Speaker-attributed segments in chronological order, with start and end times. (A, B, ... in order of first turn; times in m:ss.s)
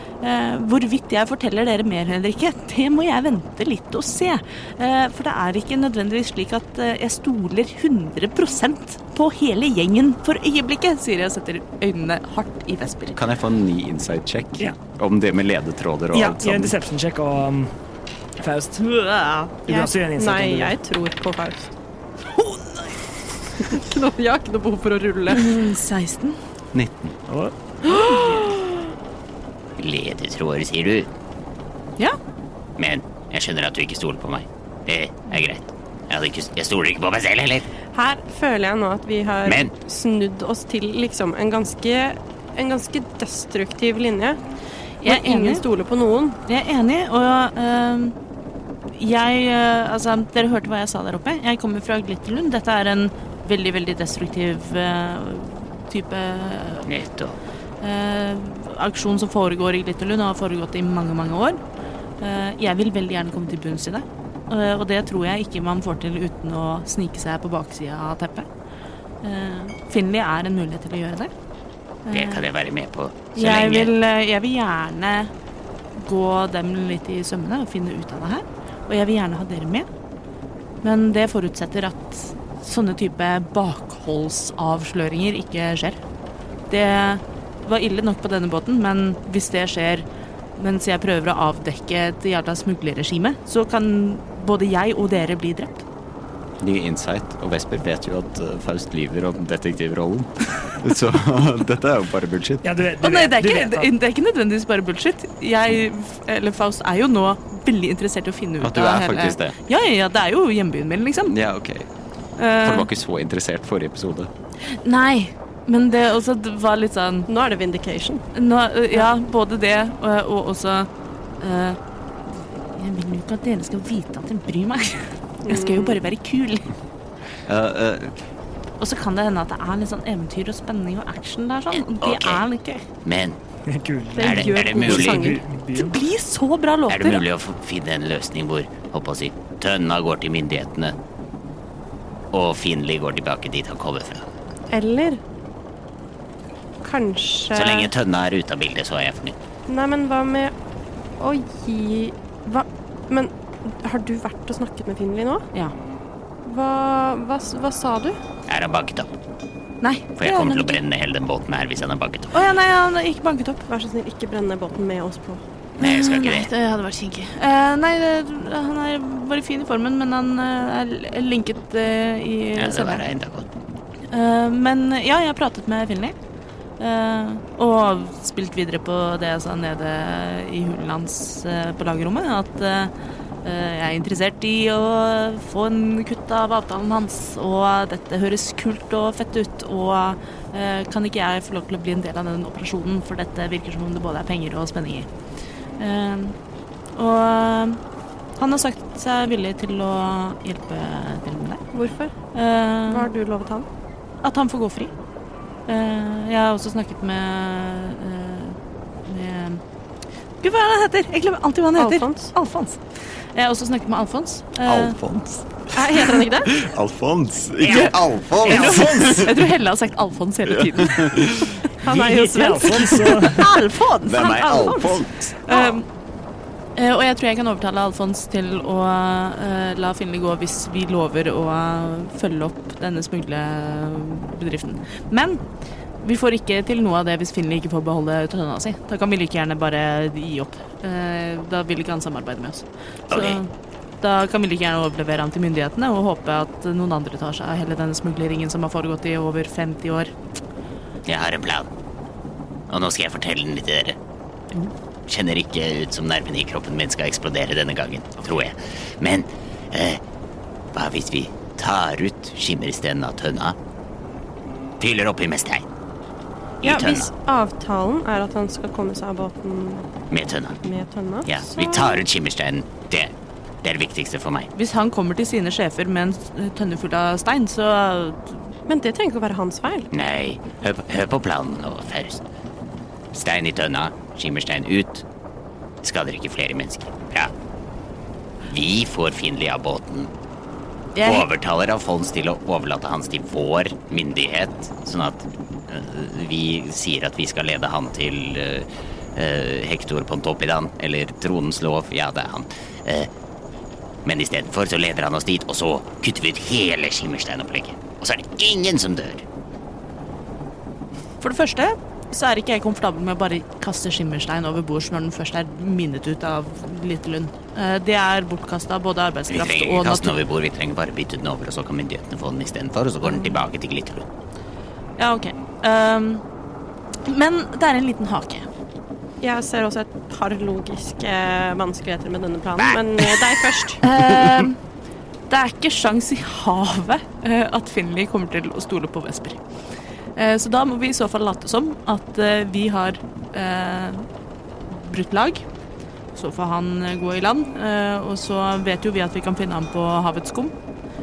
0:00.2-0:13.2 A
0:13.1-0:16.7 B
0:16.1-0:17.7 C
0:18.4-0:20.8 C
0:18.9-0:19.5 A
0:19.7-0:21.7 D
0:22.4-0:22.8 A
0:23.6-0:25.6 D
0:25.3-0:26.4 A
0:26.7-0:27.2 B
0:27.3-0:27.5 C
0:27.8-0:28.7 D
0:27.9-0:28.5 A
0:29.8-0:31.1 E
0:32.8-0:37.6 E
0:37.9-0:44.4 D
0:39.4-0:39.7 E
0:45.0-0:45.6 A
0:45.0-0:46.4 D
0:46.4-0:48.2 A
0:48.9-0:56.9 A
0:56.8-0:57.4 E
0:57.8-1:01.6 A
1:02.2-1:08.5 A
1:09.2-1:11.3 A
1:12.0-1:12.5 A
1:12.1-1:13.9 E
1:13.3-1:15.3 A
1:16.0-1:19.9 A
1:20.8-1:26.0 A
1:26.7-1:30.0 A
1:30.6-1:35.8 A
1:36.6-1:42.7 B
1:42.6-1:43.9 C
1:43.0-1:51.4 A
1:48.6-1:49.5 B
1:51.3-1:51.9 B
1:52.4-1:52.9 A
1:52.6-1:54.3 B
1:54.6-1:57.3 A
1:57.3-1:58.2 D
1:58.3-2:06.7 A
2:05.4-2:06.0 D
2:07.5-2:08.1 B
2:08.8-2:12.8 A
2:11.8-2:12.4 E
2:13.0-2:13.4 E
2:13.7-2:16.0 C
2:14.2-2:15.4 D
2:14.2-2:15.4 E
2:15.7-2:17.2 A
2:16.9-2:21.0 E
2:22.3-2:24.3 E
2:24.7-2:25.2 D
2:26.8-2:27.9 D
2:27.5-2:29.4 E
2:29.7-2:30.5 D
2:31.2-2:35.5 D
2:36.4-2:38.2 D
2:38.5-2:39.1 E
2:39.8-2:40.8 A
2:40.2-2:42.4 E
2:42.3-2:43.6 A
2:43.7-2:45.4 D
2:45.8-2:46.5 E
2:45.8-2:53.0 A
2:52.6-2:53.5 E
2:54.1-2:56.2 A
2:56.8-3:02.9 A
3:03.4-3:15.1 A
3:15.8-3:16.4 A
3:16.9-3:17.8 A
3:18.4-3:21.6 A
3:21.7-3:22.1 D
3:22.3-3:23.1 A
3:22.9-3:23.7 D
3:24.2-3:24.9 A
3:25.7-3:29.6 A
3:30.4-3:35.0 A
3:31.8-3:32.3 D
3:34.6-3:39.4 B
3:35.7-3:36.5 D
3:37.6-3:41.2 A
3:38.4-3:39.2 C
3:40.5-3:41.6 B
3:41.8-3:43.3 D
3:41.8-3:43.5 C
3:42.6-3:45.9 A
3:44.0-3:45.3 B
3:45.5-3:45.8 D
3:46.8-3:55.4 A
3:56.0-4:10.1 A
4:03.1-4:03.4 E
4:11.1-4:11.7 E
4:12.7-4:14.0 E
4:15.1-4:20.0 E
4:20.7-4:23.6 E
4:24.8-4:25.6 E
4:26.6-4:27.1 E
4:26.6-4:29.9 D
4:30.1-4:30.6 E
4:30.6-4:32.0 D
4:31.2-4:33.1 E
4:33.6-4:34.5 E
4:34.5-4:38.4 A
4:38.7-4:39.9 D
4:39.9-4:42.2 E
4:43.1-4:45.0 E
4:45.8-4:47.3 E
4:48.5-4:50.1 E
4:50.9-4:51.3 A
4:51.0-5:03.1 E
5:04.0-5:09.2 E
5:11.2-5:20.2 A
5:19.3-5:24.0 E
5:23.0-5:23.4 A
5:25.0-5:26.2 A
5:27.0-5:28.5 A
5:29.2-5:33.9 D
5:32.6-5:33.2 E
5:33.8-5:34.6 A
5:35.3-5:39.4 A
5:40.1-5:44.0 A
5:44.7-5:45.4 A
5:46.1-5:50.5 A